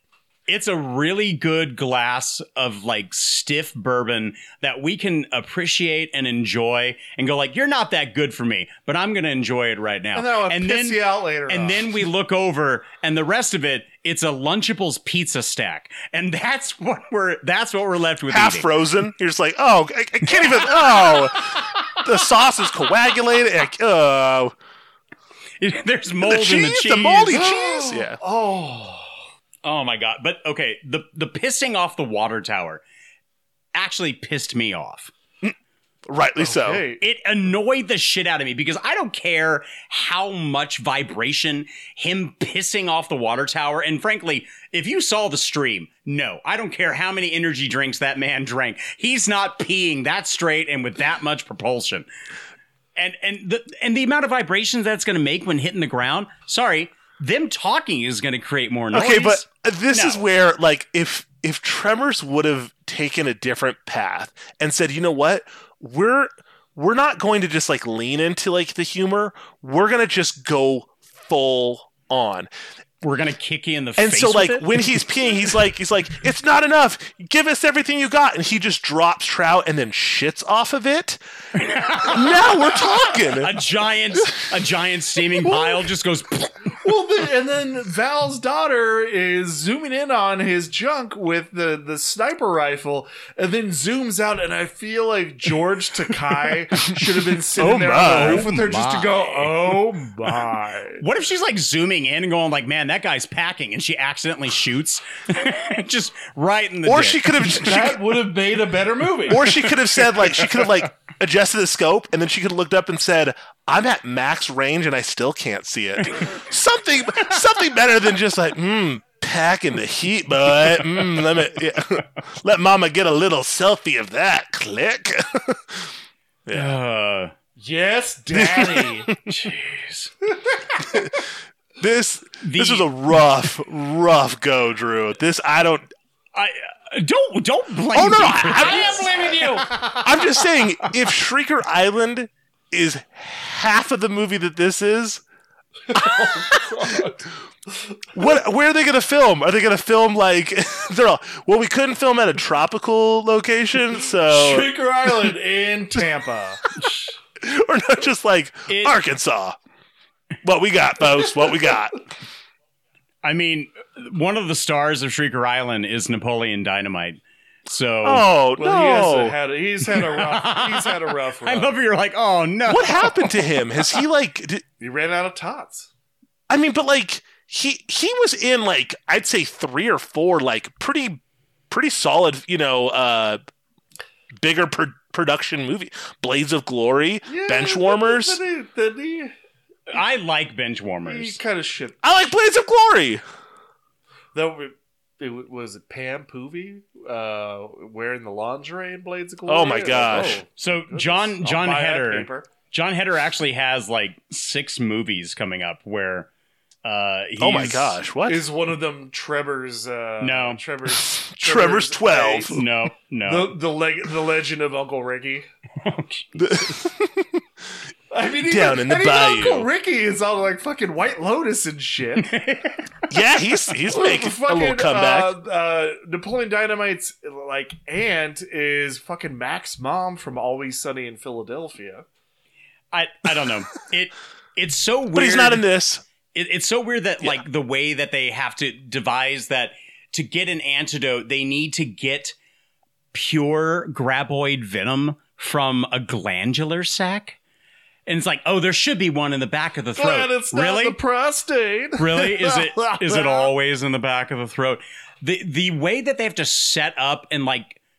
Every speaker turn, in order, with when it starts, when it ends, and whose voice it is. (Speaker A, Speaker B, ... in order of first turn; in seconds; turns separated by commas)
Speaker A: 0.5-18.7, Speaker B: 10.2-11.9, Speaker C: 18.3-24.5, Speaker A: 20.3-22.0, Speaker A: 25.6-27.4, Speaker C: 26.2-28.2, Speaker B: 27.3-29.2, Speaker A: 29.6-32.8, Speaker A: 33.7-35.1, Speaker C: 36.1-36.8, Speaker B: 36.4-37.0, Speaker A: 37.0-52.1, Speaker A: 53.0-60.2, Speaker C: 58.9-72.5, Speaker A: 73.0-75.0, Speaker C: 74.0-81.2, Speaker A: 81.6-86.8, Speaker C: 82.0-83.6, Speaker B: 85.5-85.9, Speaker B: 86.8-101.0, Speaker C: 97.6-98.5, Speaker A: 98.0-99.7, Speaker A: 101.0-107.3, Speaker C: 106.8-108.0, Speaker B: 107.6-109.5, Speaker C: 109.3-125.8, Speaker C: 126.5-126.8, Speaker A: 126.5-127.3, Speaker B: 127.6-129.1, Speaker C: 128.4-129.1, Speaker A: 129.3-130.1, Speaker C: 131.8-135.9, Speaker A: 132.4-132.9, Speaker A: 136.3-140.0, Speaker C: 137.9-139.5, Speaker B: 138.5-139.7, Speaker C: 140.0-145.2, Speaker B: 145.9-147.3, Speaker B: 147.8-148.3, Speaker C: 148.2-154.7, Speaker B: 154.2-156.6, Speaker C: 157.4-159.6, Speaker A: 158.7-158.9, Speaker C: 160.4-162.1, Speaker A: 163.2-168.2, Speaker C: 168.0-169.4, Speaker B: 168.6-171.8, Speaker A: 169.9-173.1, Speaker C: 172.7-174.7, Speaker B: 174.8-175.9, Speaker C: 176.5-183.4, Speaker C: 184.4-188.4, Speaker B: 187.3-189.3, Speaker A: 189.9-191.4, Speaker B: 191.1-192.0, Speaker C: 192.0-193.2, Speaker B: 194.3-202.5, Speaker C: 199.5-200.4, Speaker A: 200.6-206.3, Speaker A: 206.8-208.0, Speaker C: 207.4-208.4, Speaker B: 208.3-212.6, Speaker A: 210.2-210.6, Speaker C: 211.4-212.6, Speaker A: 212.4-213.6, Speaker B: 213.2-215.5, Speaker A: 215.8-216.5, Speaker C: 216.4-217.4, Speaker B: 218.1-222.3, Speaker C: 218.5-219.7, Speaker A: 222.2-223.1, Speaker C: 223.1-225.3, Speaker B: 223.9-232.1, Speaker A: 232.9-235.6, Speaker C: 235.1-236.0, Speaker A: 236.3-242.3, Speaker A: 243.1-247.4, Speaker A: 248.1-251.0, Speaker B: 250.0-253.5, Speaker A: 252.0-257.8